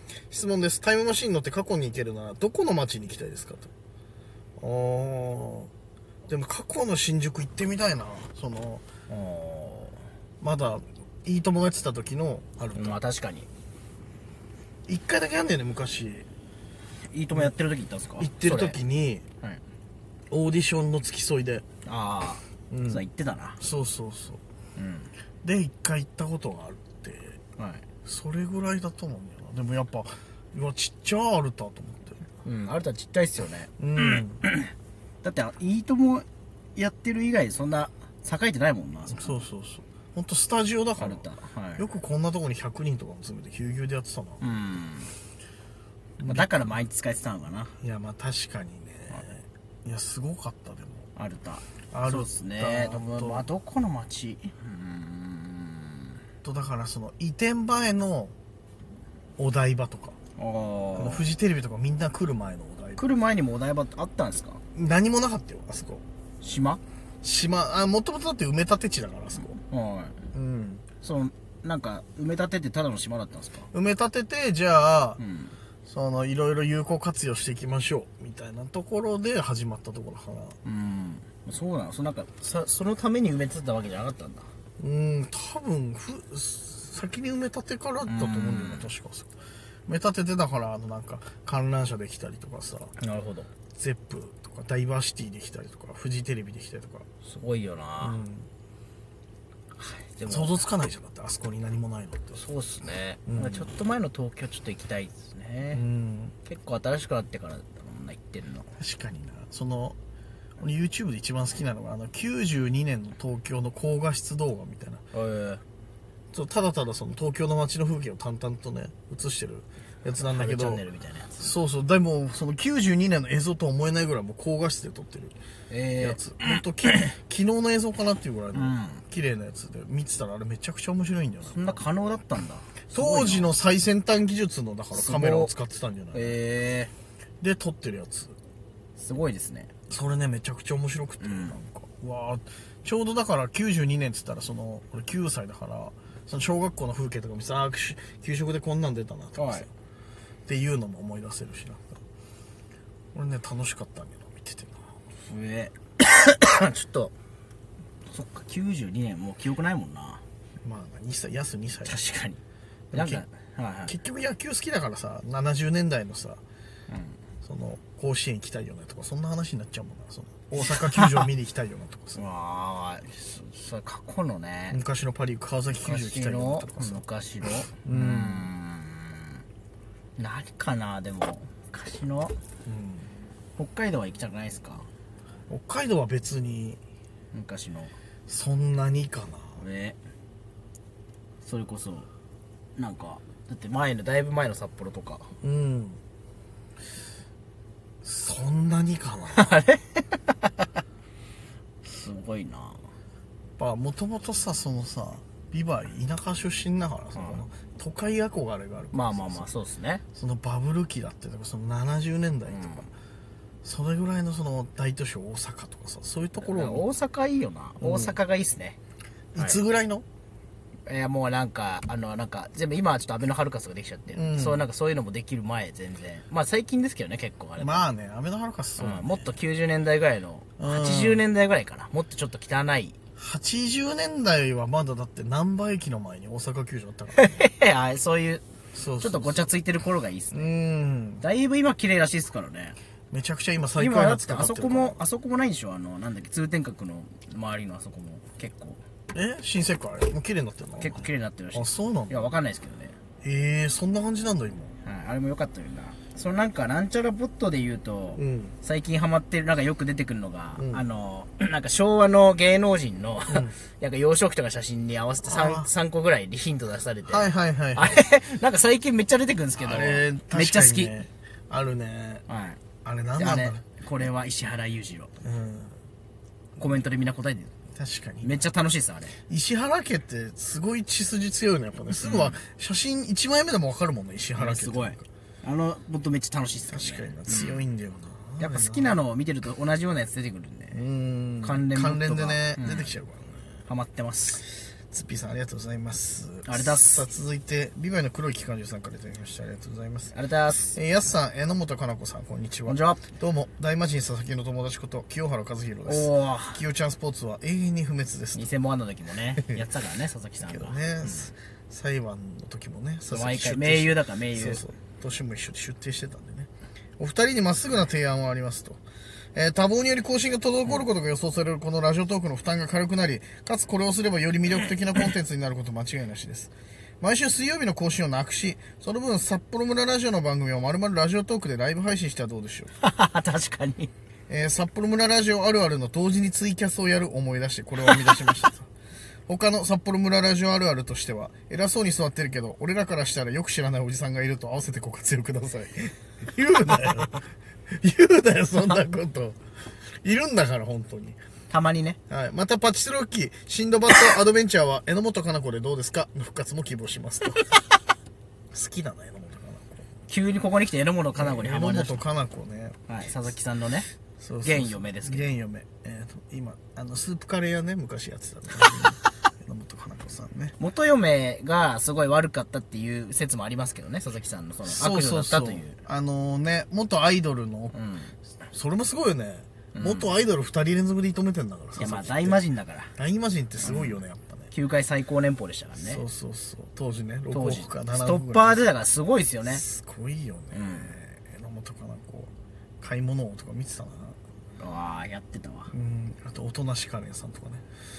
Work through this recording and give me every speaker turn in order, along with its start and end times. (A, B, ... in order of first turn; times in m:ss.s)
0:00.3-0:03.7 A
0:04.6-0:05.7 A
0:06.3-0:08.8 A
0:09.1-0:10.0 B
0:10.4-0:13.0 A
0:12.8-0:13.5 B
0:14.9-0:16.3 A
0:17.1-0:18.8 B
0:18.2-0:19.2 A
0:20.3-0:21.6 A
0:21.8-0:23.6 B
0:22.7-0:23.0 A
0:23.6-0:24.4 A
0:24.8-0:25.1 B
0:25.4-0:27.4 A
0:27.6-0:27.8 B
0:28.0-0:32.2 A
0:32.4-0:34.7 B
0:33.8-0:34.4 A
0:35.2-0:39.4 B
0:39.1-0:44.5 A
0:41.0-0:41.9 B
0:44.4-0:45.1 B
0:46.2-0:46.7 A
0:46.2-0:47.8 B
0:47.8-0:51.1 A
0:51.2-0:56.1 B
0:51.9-0:53.5 A
0:56.4-0:58.3 A
0:59.4-1:00.2 A
1:00.4-1:01.3 B
1:01.0-1:03.0 A
1:03.0-1:04.6 B
1:04.7-1:06.0 A
1:06.4-1:06.8 B
1:07.2-1:09.6 A
1:09.7-1:10.2 B
1:10.3-1:10.8 A
1:11.0-1:13.7 B
1:13.7-1:15.2 A
1:15.2-1:15.6 B
1:15.9-1:20.6 A
1:20.6-1:24.5 B
1:24.8-1:29.3 A
1:28.0-1:28.9 B
1:29.9-1:32.9 A
1:33.0-1:33.5 B
1:33.8-1:37.1 A
1:37.2-1:38.2 B
1:38.0-1:38.5 A
1:39.8-1:40.6 B
1:40.3-1:42.4 A
1:42.4-1:45.8 B
1:43.3-1:43.7 A
1:45.7-1:46.3 A
1:46.5-1:48.7 B
1:48.8-1:50.0 A
1:50.6-1:55.0 A
1:55.1-1:55.6 B
1:56.3-2:00.8 A
2:00.2-2:01.5 B
2:01.4-2:05.3 A
2:05.7-2:06.4 B
2:06.0-2:11.8 A
2:08.5-2:09.0 B
2:11.4-2:13.5 B
2:12.9-2:16.4 A
2:14.9-2:15.5 B
2:16.1-2:16.9 B
2:17.4-2:18.4 A
2:19.0-2:19.7 B
2:19.9-2:29.7 A
2:21.2-2:21.6 B
2:29.3-2:29.7 B
2:30.5-2:32.0 A
2:33.1-2:34.9 A
2:35.3-2:37.1 B
2:38.1-2:40.2 B
2:40.6-2:42.0 A
2:41.8-2:42.4 B
2:42.9-2:43.2 A
2:42.9-2:43.9 B
2:43.9-2:46.4 A
2:46.9-2:47.2 B
2:47.4-2:52.2 A
2:52.1-2:54.8 B
2:54.7-2:57.0 A
2:55.8-2:59.4 B
2:57.7-2:58.5 A
3:00.2-3:02.4 B
3:02.7-3:03.1 A
3:03.6-3:04.9 B
3:05.5-3:06.8 A
3:07.3-3:07.9 B
3:08.3-3:09.6 A
3:09.6-3:10.0 B
3:11.4-3:12.1 B
3:12.8-3:15.3 B
3:15.4-3:16.0 A
3:18.0-3:19.6 A
3:19.3-3:20.5 B
3:21.8-3:22.9 B
3:23.6-3:29.5 A
3:27.2-3:27.4 B
3:28.9-3:30.0 B
3:30.1-3:32.9 A
3:32.5-3:32.9 B
3:33.6-3:36.9 A
3:36.4-3:38.8 B
3:37.8-3:38.2 A
3:39.4-3:40.0 A
3:40.9-3:47.8 B
3:44.1-3:44.7 A
3:47.6-3:49.4 A
3:48.8-3:53.0 B
3:50.6-3:51.2 A
3:53.2-3:57.5 A
3:57.1-3:58.4 B
3:58.7-3:59.5 A
3:59.0-4:00.5 B
4:00.3-4:01.2 A
4:01.2-4:02.8 B
4:03.1-4:05.0 A
4:03.8-4:08.8 B
4:09.1-4:12.3 A
4:10.8-4:13.0 B
4:13.2-4:14.8 A
4:14.8-4:30.9 B
4:18.2-4:18.5 A
4:20.6-4:20.8 A
4:23.3-4:23.6 A
4:25.2-4:25.7 A
4:27.1-4:28.0 A
4:29.6-4:32.2 A
4:32.3-4:32.6 B
4:32.8-4:33.6 A
4:33.2-4:35.1 B
4:35.2-4:35.8 A
4:36.6-4:37.5 B
4:37.8-4:38.5 A
4:38.2-4:39.2 B
4:39.3-4:45.1 A
4:41.9-4:42.4 B
4:44.4-4:47.7 B
4:46.7-4:49.0 A
4:48.4-4:50.8 B
4:50.7-4:53.5 A
4:51.4-4:52.9 B
4:53.7-4:54.4 B
4:54.9-5:00.1 A
4:56.4-4:57.1 B
5:00.1-5:00.8 B
5:00.7-5:08.5 A
5:02.7-5:03.1 B
5:05.9-5:06.6 B
5:08.3-5:11.2 B
5:10.4-5:18.8 A
5:13.1-5:14.6 B
5:19.4-5:32.7 A
5:32.8-5:33.9 B
5:34.3-5:38.7 A
5:38.0-5:38.3 B
5:39.3-5:49.4 A
5:50.0-5:51.2 A
5:51.5-5:52.0 B
5:52.1-5:57.5 A
5:58.5-5:59.8 A
6:00.1-6:02.0 B
6:01.2-6:02.8 A
6:02.9-6:03.9 B
6:04.2-6:10.6 A
6:04.4-6:05.3 B
6:10.6-6:15.8 B
6:14.7-6:17.8 A
6:17.7-6:18.1 B
6:18.5-6:22.4 A
6:19.7-6:20.1 B
6:21.8-6:22.9 B
6:23.0-6:24.5 A
6:23.6-6:24.0 B
6:24.5-6:26.0 B
6:25.8-6:28.7 A
6:27.3-6:29.6 B
6:29.4-6:34.2 A
6:30.5-6:30.9 B
6:34.6-6:35.7 B
6:35.7-6:37.6 A